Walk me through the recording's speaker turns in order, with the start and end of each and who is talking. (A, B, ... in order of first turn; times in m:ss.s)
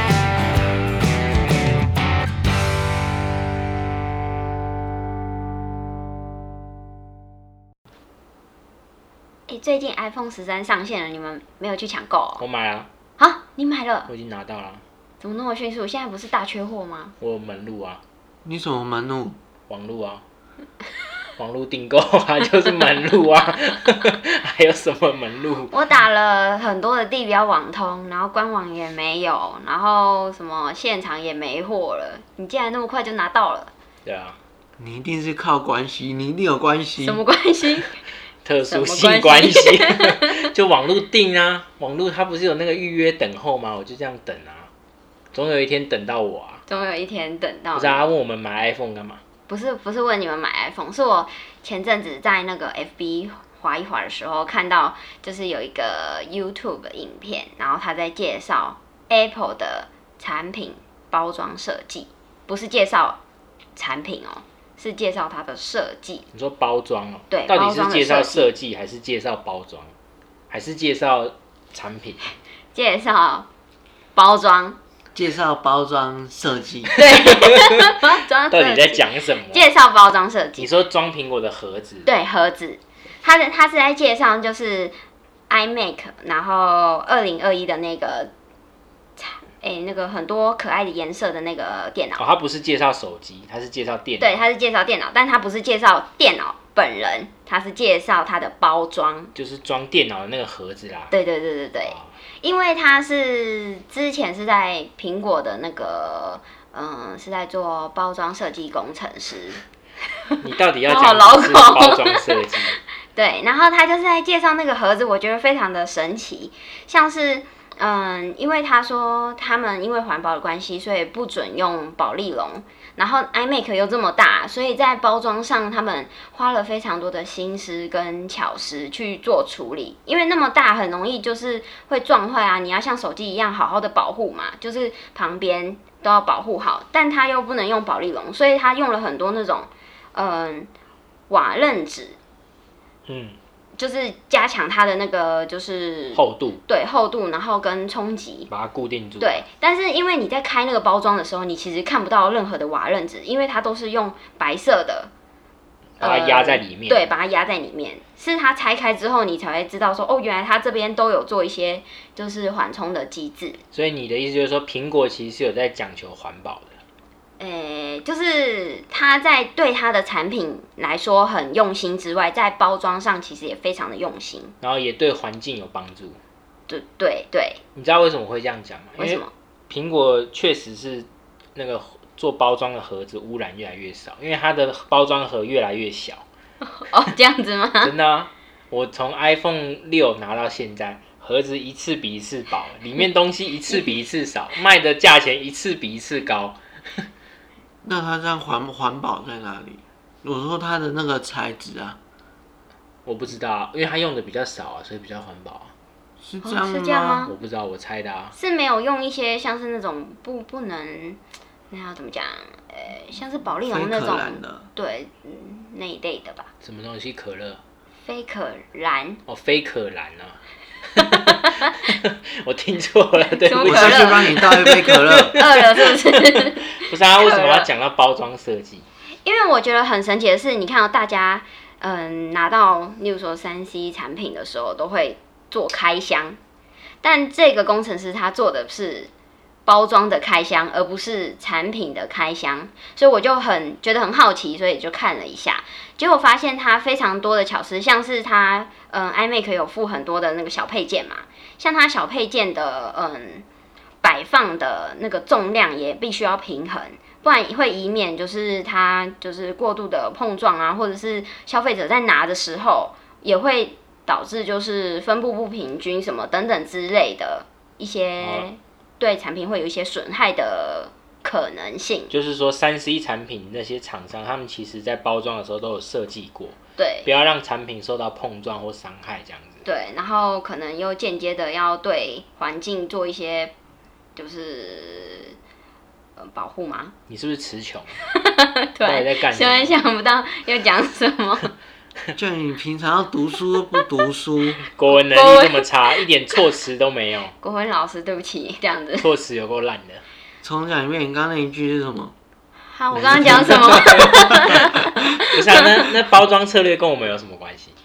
0:09.5-0:12.4 A
0:12.4-0:12.9 B
0:13.2-0:14.1 A
0:14.1-0:14.8 B
0:15.2-0:17.1 A
0:17.2-0:18.0 B
0:18.4-0:19.4 C
0:19.7-0:20.2 B
0:21.4-0:25.7 B
0:25.7-0:33.7 A
0:34.0-0:34.4 B
0:34.8-0:37.2 C
0:37.0-0:38.0 A
0:38.4-0:44.7 B
0:38.6-0:40.3 A
0:45.3-0:46.6 B
0:46.7-0:48.0 A
0:47.7-0:49.2 B
0:49.5-1:03.2 A
1:03.8-1:06.2 A
1:06.3-1:09.9 B
1:07.3-1:08.5 A
1:10.5-1:12.3 B
1:12.7-1:13.5 A
1:14.1-1:14.8 A
1:15.1-1:17.0 C
1:16.9-1:20.7 A
1:18.5-1:19.7 B
1:20.6-1:22.1 B
1:22.0-1:24.9 A
1:25.5-1:28.3 A
1:29.2-1:32.2 A
1:32.2-1:34.4 B
1:34.2-1:39.3 A
1:39.3-1:41.1 B
1:41.1-1:49.6 A
1:41.8-1:42.1 B
1:50.4-1:52.8 B
1:50.8-1:52.5 A
1:53.1-2:20.7 A
2:21.3-2:22.2 A
2:23.1-2:23.4 B
2:23.8-2:28.5 A
2:26.1-2:26.6 B
2:28.5-2:29.4 B
2:29.2-2:35.1 A
2:36.0-2:37.1 B
2:36.0-2:43.6 A
2:43.7-2:46.7 B
2:47.4-2:54.5 A
2:54.6-2:56.2 B
2:56.7-2:57.6 A
2:57.8-3:06.2 B
2:59.0-2:59.3 A
3:06.7-3:07.9 A
3:07.8-3:17.1 B
3:17.8-3:22.0 C
3:23.0-3:25.7 B
3:26.2-3:27.2 C
3:26.4-3:27.3 A
3:27.2-3:28.3 B
3:28.3-3:36.5 A
3:33.7-3:34.7 C
3:36.6-3:37.6 B
3:38.0-3:39.2 A
3:39.3-3:40.4 B
3:40.9-3:46.2 B
3:43.4-3:44.4 A
3:43.6-3:45.3 C
3:45.3-3:47.7 A
3:46.8-3:48.8 B
3:49.2-3:56.4 A
3:57.0-3:59.1 A
3:59.6-4:13.4 A
4:14.0-4:32.1 A
4:28.2-4:28.5 B
4:32.1-4:39.6 B
4:36.8-4:37.1 A
4:39.6-4:43.5 A
4:44.2-4:45.4 A
4:46.2-4:46.9 A
4:47.1-4:48.0 B
4:48.1-4:51.5 A
4:48.8-4:49.8 B
4:52.1-4:54.6 C
4:53.6-4:53.8 A
4:54.6-4:57.3 B
4:54.9-4:56.4 A
4:57.4-4:59.1 A
4:59.0-5:00.0 B
5:00.4-5:02.1 C
5:02.6-5:05.7 A
5:03.0-5:04.6 B
5:03.5-5:04.0 C
5:05.1-5:07.7 B